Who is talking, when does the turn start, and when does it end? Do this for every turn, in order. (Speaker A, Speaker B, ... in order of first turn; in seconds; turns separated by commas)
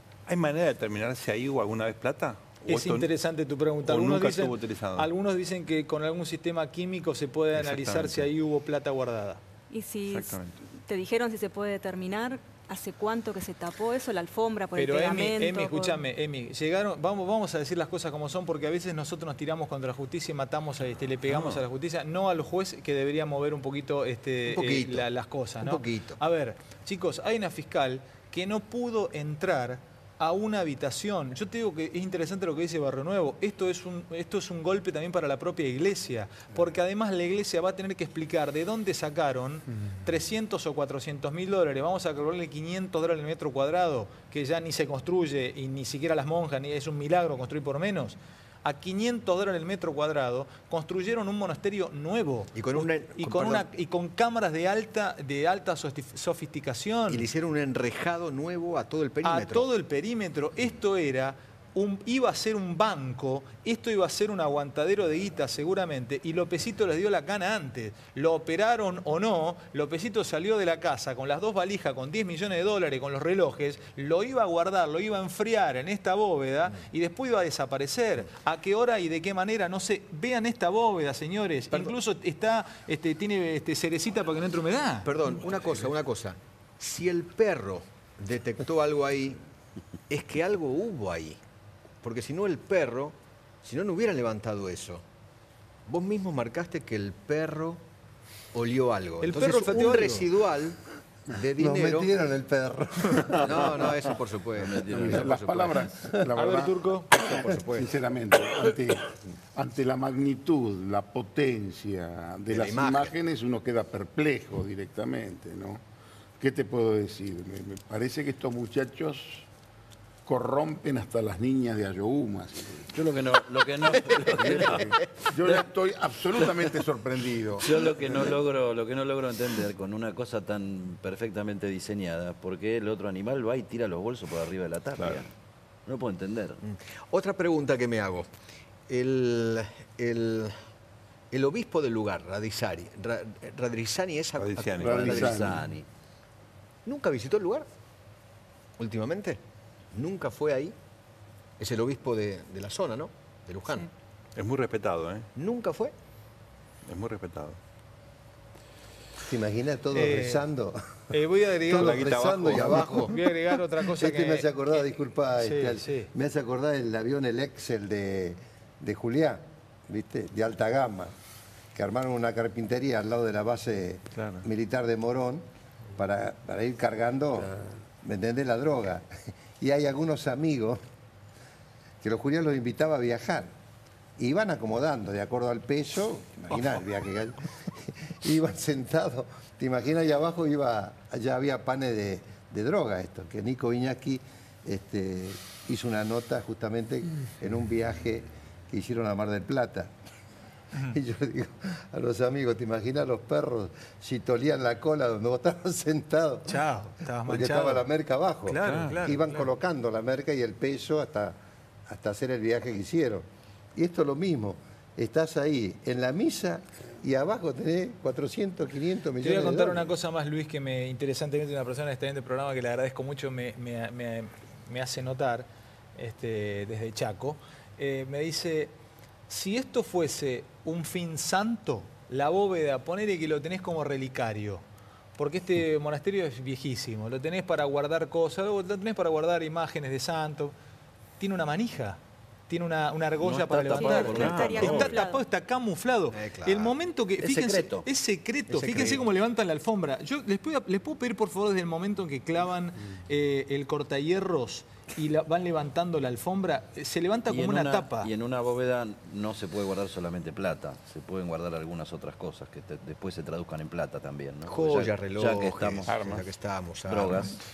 Speaker A: 0.3-3.1, Speaker B: 2.6-9.4, Speaker A: 3.8-5.1, Speaker A: 7.5-8.3, Speaker C: 9.7-16.0, Speaker A: 10.1-10.6, Speaker B: 14.8-57.3, Speaker A: 21.3-21.6, Speaker D: 24.5-25.1, Speaker D: 25.6-26.2, Speaker D: 52.6-53.7, Speaker D: 57.1-59.7, Speaker B: 59.2-85.1, Speaker D: 85.0-89.4, Speaker D: 90.1-91.4, Speaker D: 92.0-95.0, Speaker D: 95.9-97.8, Speaker D: 98.5-102.2, Speaker B: 99.2-100.3, Speaker E: 101.6-104.0, Speaker D: 103.1-105.9, Speaker F: 104.6-105.3, Speaker G: 104.7-115.8, Speaker B: 106.3-107.1, Speaker D: 107.1-108.0, Speaker D: 112.5-113.2, Speaker G: 116.4-119.5, Speaker G: 120.3-123.1, Speaker F: 122.9-125.7, Speaker G: 124.3-128.3, Speaker F: 127.6-135.3, Speaker F: 135.9-136.6, Speaker D: 136.6-138.3, Speaker D: 138.9-140.6, Speaker D: 141.3-145.4, Speaker A: 144.4-145.3, Speaker G: 144.8-145.7, Speaker F: 144.8-145.9, Speaker D: 146.9-147.7, Speaker D: 148.8-149.4, Speaker D: 149.9-150.8, Speaker D: 151.6-153.9, Speaker A: 154.4-155.3, Speaker D: 155.3-155.9, Speaker A: 156.9-157.6, Speaker E: 159.2-161.2, Speaker B: 159.9-160.5, Speaker B: 161.1-162.1, Speaker E: 161.7-163.3, Speaker A: 161.8-163.0, Speaker D: 162.0-163.2, Speaker B: 163.0-166.1, Speaker E: 163.8-171.1, Speaker E: 171.8-175.4, Speaker A: 174.2-174.5, Speaker E: 176.0-180.8, Speaker E: 182.0-183.5, Speaker E: 184.2-199.9, Speaker E: 200.9-206.7, Speaker B: 206.5-207.9, Speaker E: 207.2-219.9, Speaker B: 208.5-209.4, Speaker A: 208.6-209.2, Speaker B: 219.2-228.7, Speaker B: 229.3-234.6, Speaker B: 235.2-240.6, Speaker B: 241.2-258.1, Speaker F: 243.2-245.0, Speaker C: 243.7-245.2, Speaker A: 244.2-244.6, Speaker D: 246.1-246.8, Speaker F: 247.2-247.9, Speaker D: 248.5-249.1, Speaker F: 257.3-266.0, Speaker D: 264.5-267.4, Speaker A: 265.9-266.3, Speaker F: 266.9-267.4